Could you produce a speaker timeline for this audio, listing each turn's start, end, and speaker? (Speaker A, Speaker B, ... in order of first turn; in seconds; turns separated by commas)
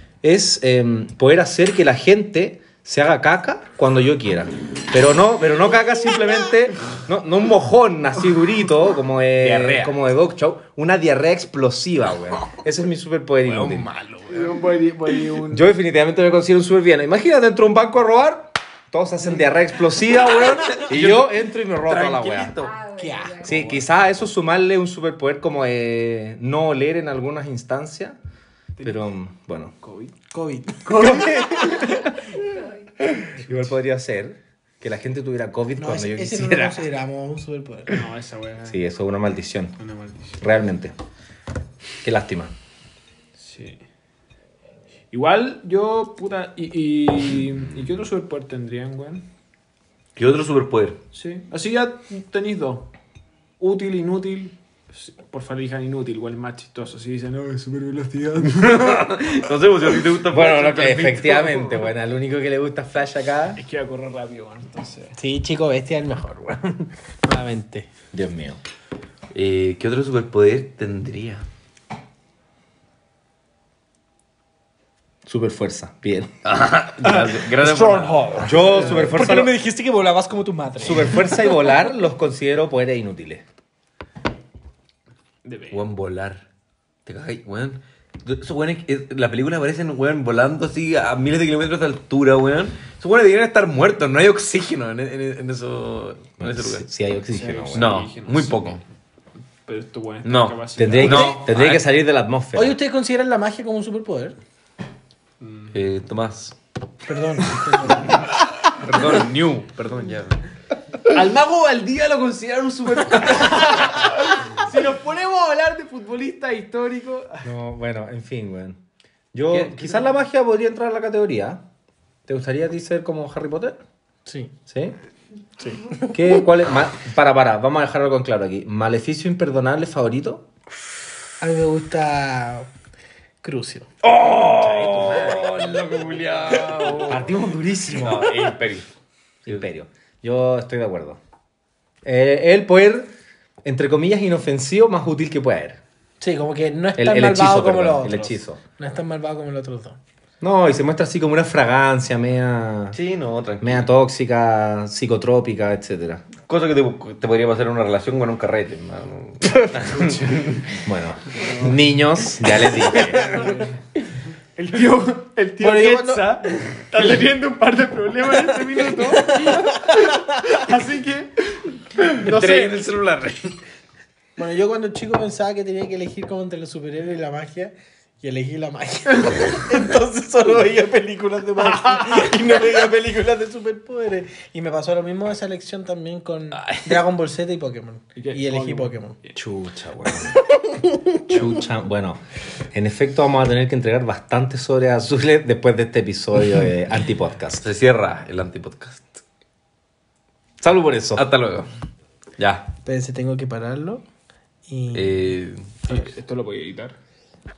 Speaker A: 0.2-13.9, Speaker B: 9.4-9.9, Speaker B: 13.4-14.6, Speaker C: 14.3-15.7, Speaker A: 15.5-22.5, Speaker B: 20.7-22.7, Speaker D: 22.5-23.8, Speaker E: 23.0-23.6, Speaker A: 23.4-28.2, Speaker C: 28.8-29.1, Speaker A: 28.8-29.7, Speaker C: 29.8-30.1, Speaker E: 30.3-32.0, Speaker A: 31.0-32.1, Speaker D: 31.8-33.1, Speaker A: 33.0-36.8, Speaker E: 35.8-38.0, Speaker C: 37.9-38.8, Speaker A: 38.6-39.8, Speaker C: 39.8-40.4, Speaker A: 40.4-40.9, Speaker A: 42.0-42.5, Speaker C: 43.4-43.8, Speaker C: 45.1-49.3, Speaker B: 50.1-51.0, Speaker C: 51.1-52.9, Speaker C: 53.6-59.0, Speaker B: 58.5-61.8, Speaker A: 60.3-63.6, Speaker C: 63.5-65.2, Speaker E: 65.2-67.9, Speaker A: 68.1-68.6, Speaker B: 69.3-71.5, Speaker A: 75.2-76.3, Speaker B: 76.4-78.3, Speaker E: 77.0-81.5, Speaker A: 78.4-79.5, Speaker A: 80.8-83.4, Speaker C: 85.4-85.8, Speaker B: 85.7-86.4, Speaker B: 87.0-96.8, Speaker A: 96.4-97.9, Speaker C: 97.3-98.8, Speaker B: 97.7-98.8, Speaker C: 99.7-101.3, Speaker B: 100.2-101.8, Speaker A: 100.8-102.8, Speaker E: 101.0-101.3, Speaker E: 102.5-104.3, Speaker C: 105.4-105.8, Speaker B: 105.7-106.5, Speaker E: 107.0-108.2, Speaker B: 108.7-110.4, Speaker C: 111.1-117.5, Speaker A: 117.4-118.8, Speaker A: 119.3-121.6, Speaker B: 119.5-120.1, Speaker A: 122.3-123.8, Speaker E: 124.2-124.5, Speaker A: 124.7-124.9, Speaker E: 125.9-126.4, Speaker A: 126.1-130.4, Speaker E: 131.4-132.7, Speaker E: 133.4-133.9, Speaker B: 134.0-137.2, Speaker A: 134.6-135.5, Speaker A: 137.1-138.3, Speaker B: 137.9-138.9, Speaker A: 139.4-141.2, Speaker A: 142.0-143.1, Speaker A: 143.6-145.8, Speaker E: 146.2-150.0, Speaker A: 147.0-148.6, Speaker A: 150.4-153.0, Speaker B: 152.9-153.9, Speaker A: 153.6-156.2, Speaker B: 156.5-160.6, Speaker A: 160.8-163.5, Speaker B: 162.7-163.6, Speaker C: 163.4-163.7, Speaker C: 164.6-172.9, Speaker E: 165.6-166.4, Speaker E: 168.8-170.1, Speaker B: 172.2-173.6, Speaker E: 174.4-189.2, Speaker C: 179.2-179.5, Speaker C: 181.9-182.2, Speaker B: 186.5-187.0, Speaker C: 188.2-189.4, Speaker A: 189.3-190.4, Speaker A: 191.3-192.2, Speaker A: 192.7-197.6, Speaker B: 197.6-199.2, Speaker A: 200.6-201.2, Speaker B: 201.2-201.7, Speaker B: 202.4-202.7, Speaker E: 202.8-204.0, Speaker E: 204.7-205.3, Speaker B: 204.9-205.8, Speaker C: 205.9-207.0